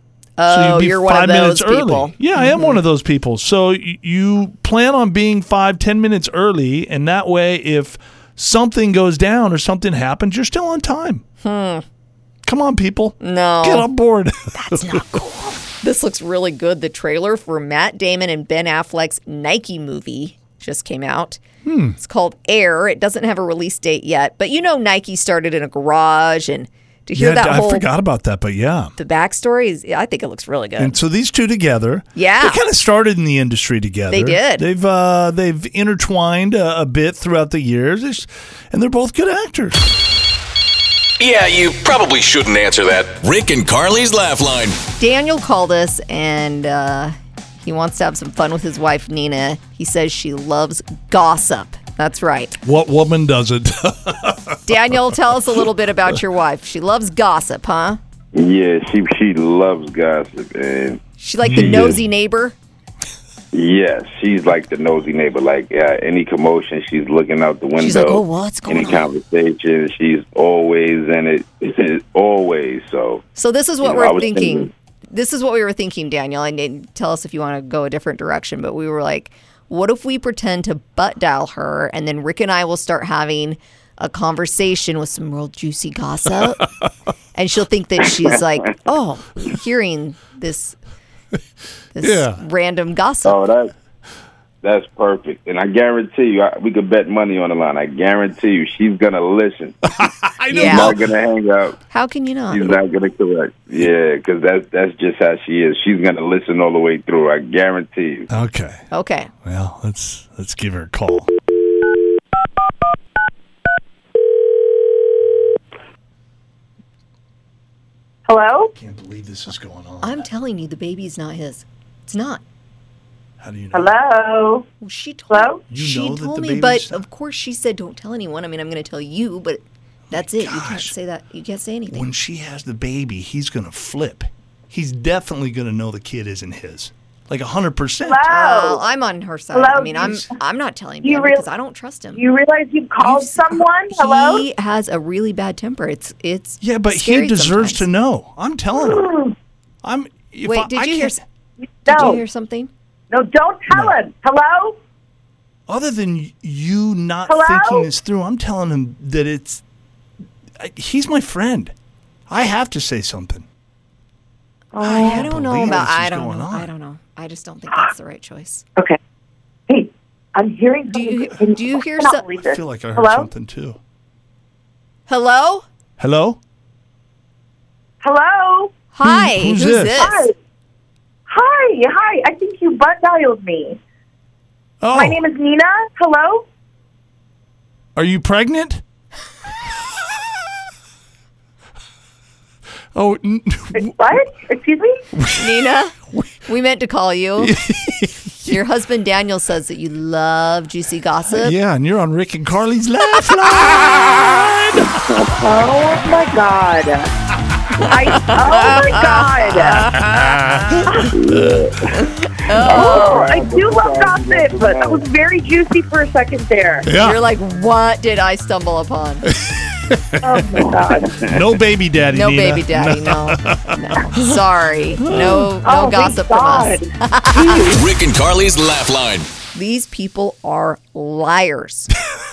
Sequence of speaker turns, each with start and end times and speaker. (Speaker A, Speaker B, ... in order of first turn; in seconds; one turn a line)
Speaker A: 0.4-2.8
Speaker B: 0.5-11.2
Speaker A: 11.4-11.8
Speaker B: 12.4-15.2
Speaker A: 13.2-13.9
Speaker A: 14.5-21.4
Speaker B: 21.6-22.0
Speaker A: 22.0-27.9
Speaker B: 27.1-28.9
Speaker A: 29.0-31.0
Speaker B: 30.8-39.9
Speaker A: 32.1-32.6
Speaker A: 34.1-34.7
Speaker C: 41.2-44.8
Speaker A: 45.0-52.6
Speaker B: 52.6-54.6
Speaker A: 54.7-58.0
Speaker D: 58.3-62.0
Speaker A: 61.2-62.5
Speaker B: 61.5-62.0
Speaker D: 63.5-73.2
Speaker A: 67.8-69.0
Speaker A: 73.3-86.7
Speaker D: 73.8-74.7
Speaker B: 86.4-86.8
Speaker A: 87.3-90.8
Speaker A: 91.9-93.4
Speaker B: 92.0-92.4
Speaker D: 93.2-93.7
Speaker D: 94.6-99.9
Speaker B: 99.9-101.0
Speaker A: 100.5-101.0
Speaker D: 100.5-101.8
Speaker A: 101.9-102.8
Speaker D: 102.5-108.3
Speaker B: 108.3-108.8
Speaker A: 108.9-109.3
Speaker B: 109.4-111.3
Speaker E: 118.3-118.7
Speaker B: 118.7-120.3
Speaker A: 120.0-122.4
Speaker B: 123.4-123.9
Speaker E: 123.7-124.7
Speaker A: 124.8-132.1
Speaker E: 125.3-125.6
Speaker B: 125.7-127.0
Speaker B: 130.1-130.9
Speaker B: 131.9-138.3
Speaker E: 138.1-138.8
Speaker A: 138.2-142.2
Speaker E: 139.5-140.3
Speaker B: 140.0-140.2
Speaker E: 141.0-141.5
Speaker E: 142.2-144.5
Speaker A: 143.0-147.9
Speaker B: 146.6-149.2
Speaker E: 148.8-149.3
Speaker B: 149.8-151.2
Speaker A: 150.4-151.2
Speaker E: 151.8-152.2
Speaker A: 151.9-152.7
Speaker E: 153.1-154.8
Speaker B: 153.7-154.0
Speaker B: 155.7-159.6
Speaker E: 157.3-157.9
Speaker B: 160.6-161.7
Speaker B: 162.3-163.5
Speaker E: 164.8-165.3
Speaker A: 164.8-168.7
Speaker B: 164.9-166.7
Speaker E: 169.7-173.3
Speaker A: 170.9-172.3
Speaker B: 172.4-173.8
Speaker A: 175.1-175.7
Speaker B: 176.0-176.4
Speaker E: 178.0-178.7
Speaker A: 178.9-180.3
Speaker B: 179.0-180.2
Speaker E: 180.0-180.3
Speaker E: 181.3-183.8
Speaker B: 184.8-185.2
Speaker E: 184.9-186.5
Speaker B: 188.0-188.8
Speaker B: 192.9-193.9
Speaker E: 193.7-195.0
Speaker B: 195.2-196.3
Speaker A: 195.4-197.6
Speaker B: 197.4-198.6
Speaker A: 198.5-201.6
Speaker B: 201.4-205.1
Speaker E: 205.4-207.1
Speaker E: 207.8-210.0
Speaker A: 208.2-210.3
Speaker B: 209.9-211.6
Speaker D: 211.1-215.1
Speaker A: 212.5-213.4
Speaker E: 212.7-216.9
Speaker B: 216.8-217.2
Speaker A: 216.9-219.3
Speaker B: 219.3-220.7
Speaker E: 220.2-221.2
Speaker D: 221.2-221.5
Speaker B: 221.2-224.2
Speaker A: 222.1-227.7
Speaker B: 225.0-225.6
Speaker E: 225.6-227.8
Speaker C: 227.7-229.3
Speaker A: 229.5-231.9